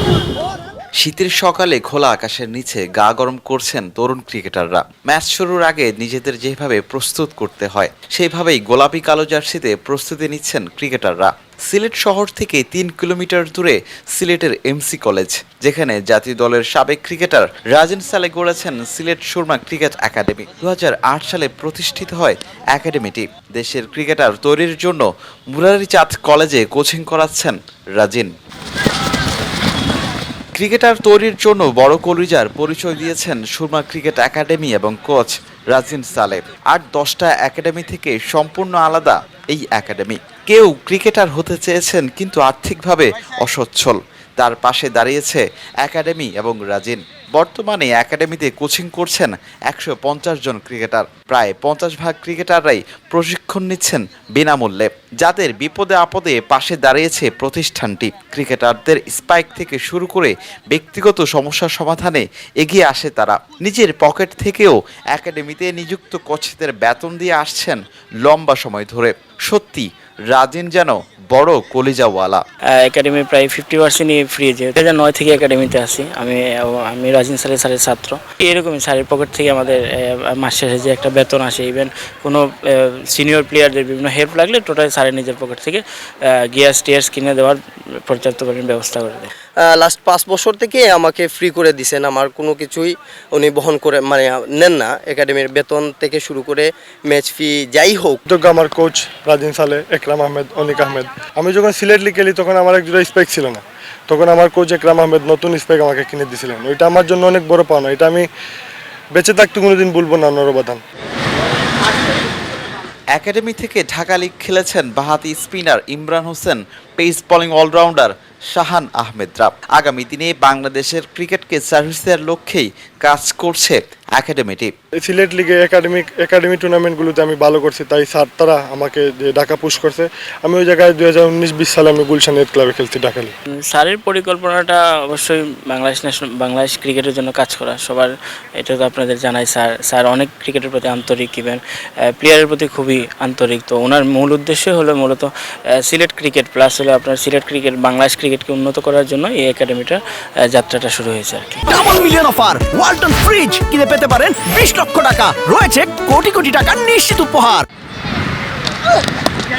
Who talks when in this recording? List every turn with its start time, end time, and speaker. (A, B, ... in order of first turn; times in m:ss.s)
0:01.0-0:28.3 A
0:30.6-1:12.4 A
1:12.7-1:29.3 B
1:29.6-1:38.2 C
1:38.2-1:48.3 D
1:49.1-1:50.8 D
1:53.2-2:04.7 A
2:05.0-2:13.3 D
2:13.7-2:31.7 B
2:31.7-2:37.6 E